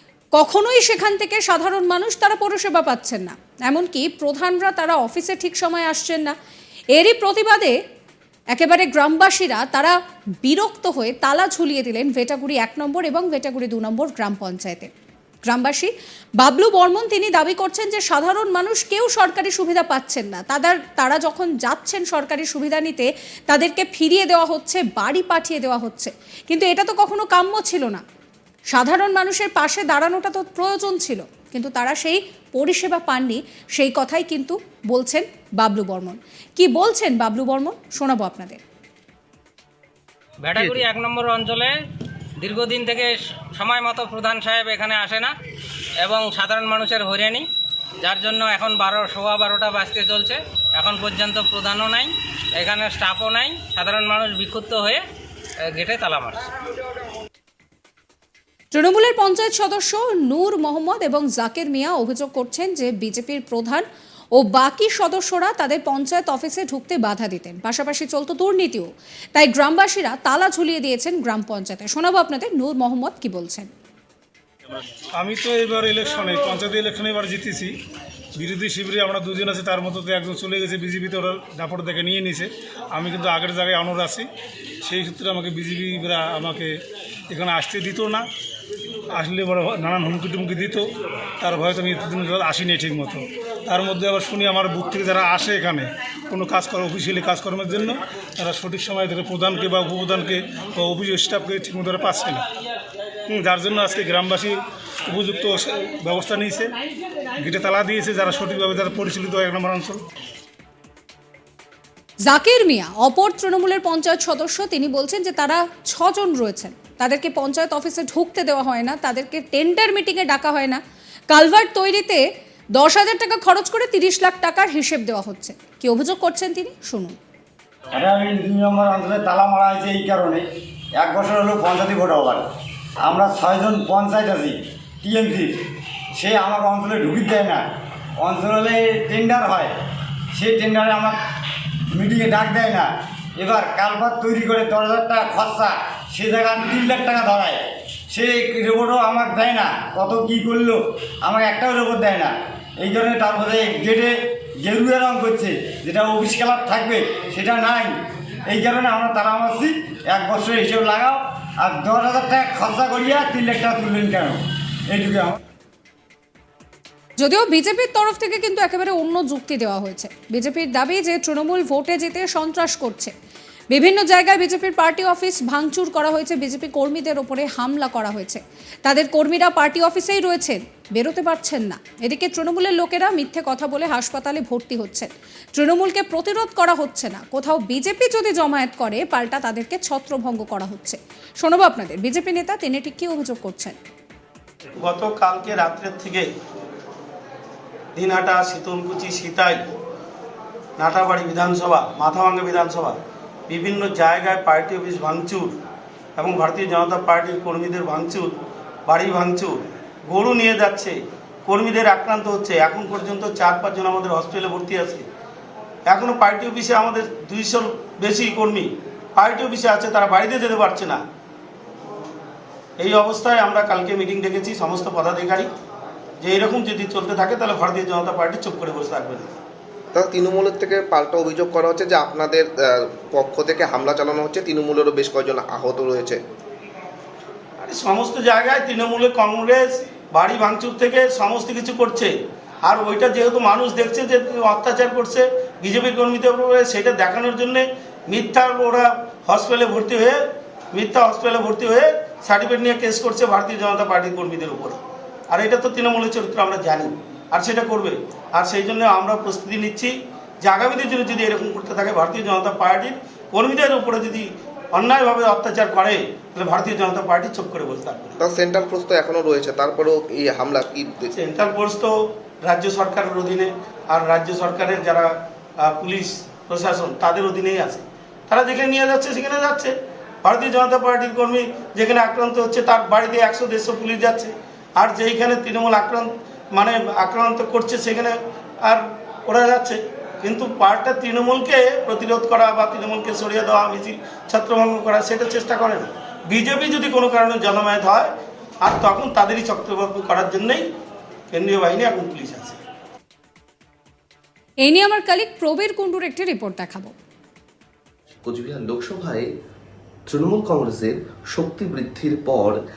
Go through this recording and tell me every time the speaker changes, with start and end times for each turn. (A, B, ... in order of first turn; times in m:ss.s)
0:00.3-0:06.3 A
0:07.0-0:07.7 A
0:08.5-0:14.9 A
0:15.4-0:28.0 A
0:28.7-0:38.6 A
0:40.4-0:41.8 B
0:42.4-0:45.3 B
0:46.0-0:47.4 B
0:48.0-0:55.0 B
0:55.7-0:56.5 B
0:58.7-1:03.8 A
1:04.4-1:13.7 A
1:15.2-1:17.7 C
1:18.4-1:24.3 C
1:24.8-1:26.7 C
1:27.3-1:28.2 C
1:29.1-1:30.9 C
1:31.4-1:42.4 C
1:43.3-1:44.6 C
1:45.1-1:46.7 C
1:47.4-1:50.0 C
1:52.2-2:02.2 A
2:02.8-2:07.2 A
2:07.9-2:10.4 D
2:11.0-2:12.4 D
2:13.0-2:15.5 D
2:16.2-2:17.6 D
2:18.2-2:19.7 D
2:20.3-2:21.2 D
2:21.9-2:38.0 D
2:38.5-2:45.4 D
2:47.2-2:53.1 A
2:53.7-3:13.8 A
3:14.8-3:16.3 E
3:17.9-3:19.6 E
3:20.8-3:23.0 E
3:23.5-3:25.6 E
3:26.2-3:28.3 E
3:28.9-3:35.0 E
3:35.9-3:41.0 E
3:42.8-3:45.5 E
3:46.2-3:49.3 E
3:50.0-3:52.4 F
3:53.1-3:56.2 F
3:57.6-4:02.1 E
4:02.6-4:10.2 E
4:10.7-4:14.8 E
4:15.3-4:28.2 E
4:28.2-4:31.0 F
4:31.1-5:00.7 E
5:01.3-5:02.6 E
5:04.6-5:06.9 A
5:08.2-5:09.3 G
5:10.1-5:12.6 G